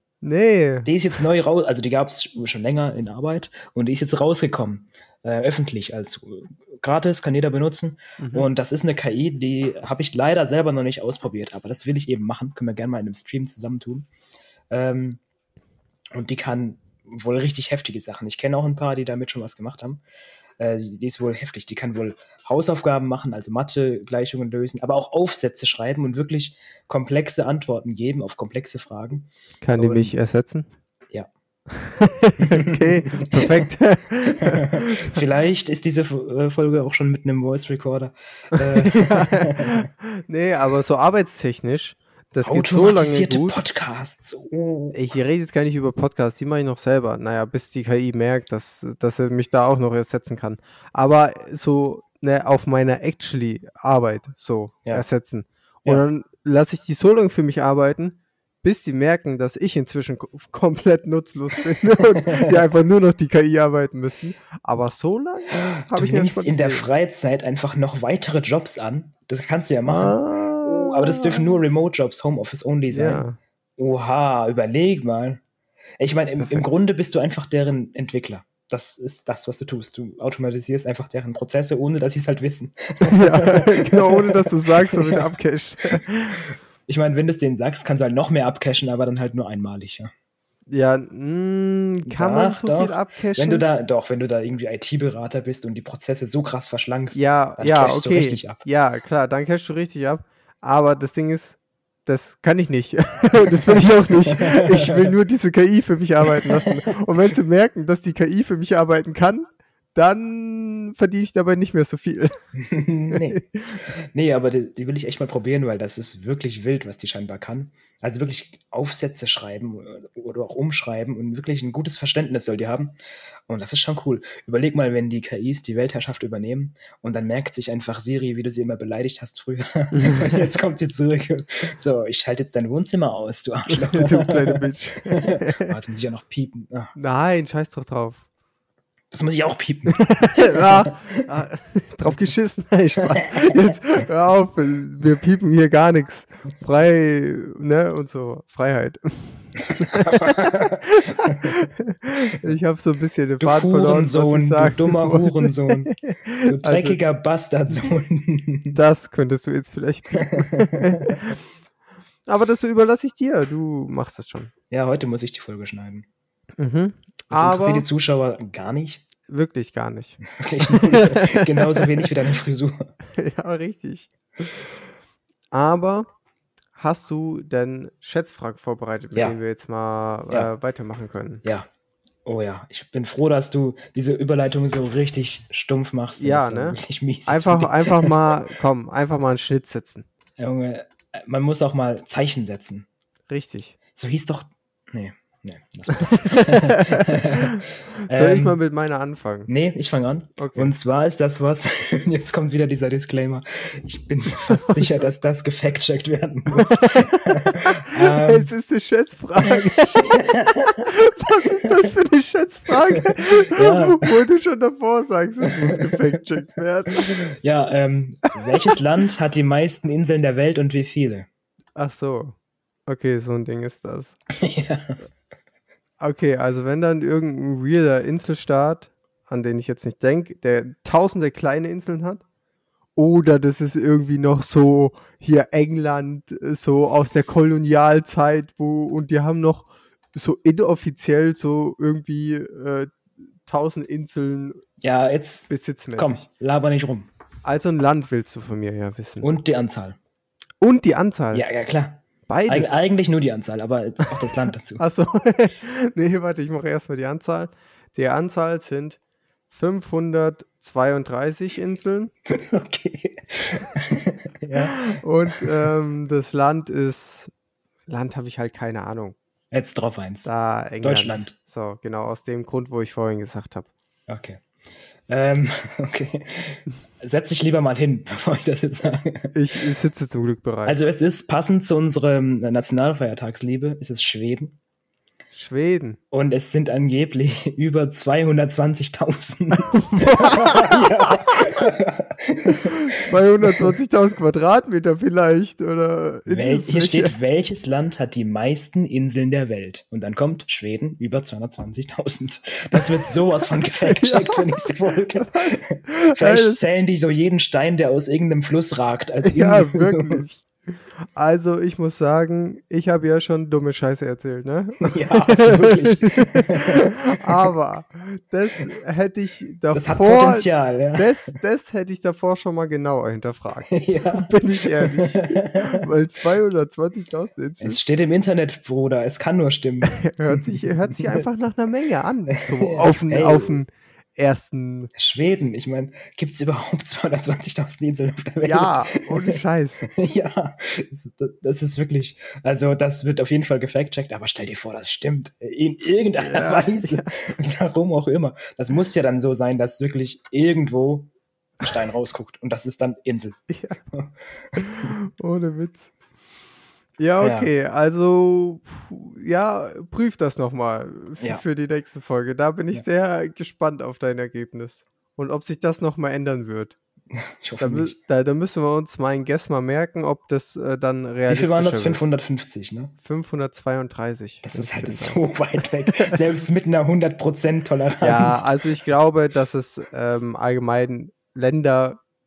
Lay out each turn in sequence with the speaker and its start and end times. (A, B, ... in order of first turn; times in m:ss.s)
0:00.2-0:00.9 A
0:00.8-0:14.1 B
0:08.2-0:08.5 A
0:14.7-0:15.2 B
0:16.2-0:20.0 B
0:20.6-0:30.1 B
0:29.6-0:30.7 A
0:31.7-0:35.2 A
0:32.4-0:33.6 B
0:34.4-0:39.9 B
0:38.6-0:43.6 A
0:42.4-0:45.0 B
0:44.9-1:06.9 A
1:02.3-1:02.5 B
1:05.5-1:13.2 B
1:09.9-1:11.6 A
1:12.9-1:13.4 A
1:13.8-1:15.4 B
1:16.0-1:25.3 B
1:23.1-1:26.5 A
1:26.9-1:30.1 B
1:30.7-1:33.6 A
1:32.1-1:38.6 B
1:37.1-1:52.4 A
1:44.3-1:45.1 B
1:46.3-1:46.7 B
1:52.6-1:53.4 B
1:53.1-1:53.8 A
1:54.0-2:03.0 B
2:03.5-2:16.9 B
2:10.0-2:10.4 A
2:13.7-2:15.7 A
2:17.0-2:18.3 A
2:19.1-2:21.1 B
2:20.0-2:37.0 A
2:23.2-2:23.6 B
2:29.9-2:31.6 B
2:33.4-2:38.8 B
2:38.7-2:41.4 A
2:40.2-2:41.1 B
2:42.3-2:44.5 A
2:44.7-2:46.1 B
2:46.6-2:47.9 A
2:47.3-2:49.0 B
2:49.3-2:51.9 A
2:50.4-2:52.9 B
2:53.2-2:54.7 A
2:55.5-2:56.1 A
2:56.8-3:01.4 A
3:01.4-3:01.7 B
3:02.3-3:08.1 B
3:06.2-3:10.1 A
3:10.4-3:12.9 B
3:13.3-3:13.8 A
3:14.0-3:18.6 B
3:16.2-3:19.5 A
3:19.5-3:28.5 B
3:20.4-3:20.7 A
3:24.5-3:24.9 A
3:26.5-3:37.2 A
3:29.7-3:30.8 B
3:33.1-3:34.2 B
3:35.7-3:36.0 B
3:37.0-3:41.3 B
3:41.8-3:42.4 A
3:42.9-3:44.2 A
3:44.4-3:45.0 B
3:46.0-3:52.2 A
3:53.0-4:04.6 A
4:04.8-4:07.1 B
4:05.5-4:06.2 A
4:07.4-4:09.3 A
4:09.2-4:10.0 B
4:10.6-4:11.4 A
4:11.3-4:14.8 B
4:12.3-4:12.8 A
4:14.8-4:19.0 A
4:19.5-4:22.1 A
4:22.3-4:25.5 B
4:24.6-4:27.3 A
4:27.9-4:29.2 A
4:29.5-4:30.3 B
4:30.2-4:33.7 A
4:30.8-4:31.3 B
4:34.1-4:34.4 B
4:35.1-4:39.3 B
4:39.3-4:40.8 A
4:40.7-4:44.6 B
4:45.3-4:46.0 A
4:46.1-4:52.9 B
4:49.7-4:51.5 A
4:52.5-4:57.2 A
4:56.3-5:10.2 B
5:03.8-5:06.6 A
5:09.2-5:27.8 A
5:14.8-5:17.5 B
5:19.7-5:21.3 B
5:23.7-5:25.9 B
5:27.6-5:31.4 B
5:30.0-5:34.9 A
5:32.4-5:33.6 B
5:35.0-5:39.4 B
5:38.4-5:39.9 A
5:39.9-5:54.9 B
5:46.2-5:47.2 A
5:53.5-5:53.8 A
5:54.6-5:55.9 A
5:57.0-6:06.8 A
5:57.2-5:57.5 B
6:07.1-6:08.0 B
6:07.6-6:12.0 A
6:11.3-6:12.9 B
6:13.0-6:15.2 A
6:14.4-6:18.5 B
6:15.9-6:16.2 A
6:18.0-6:22.0 A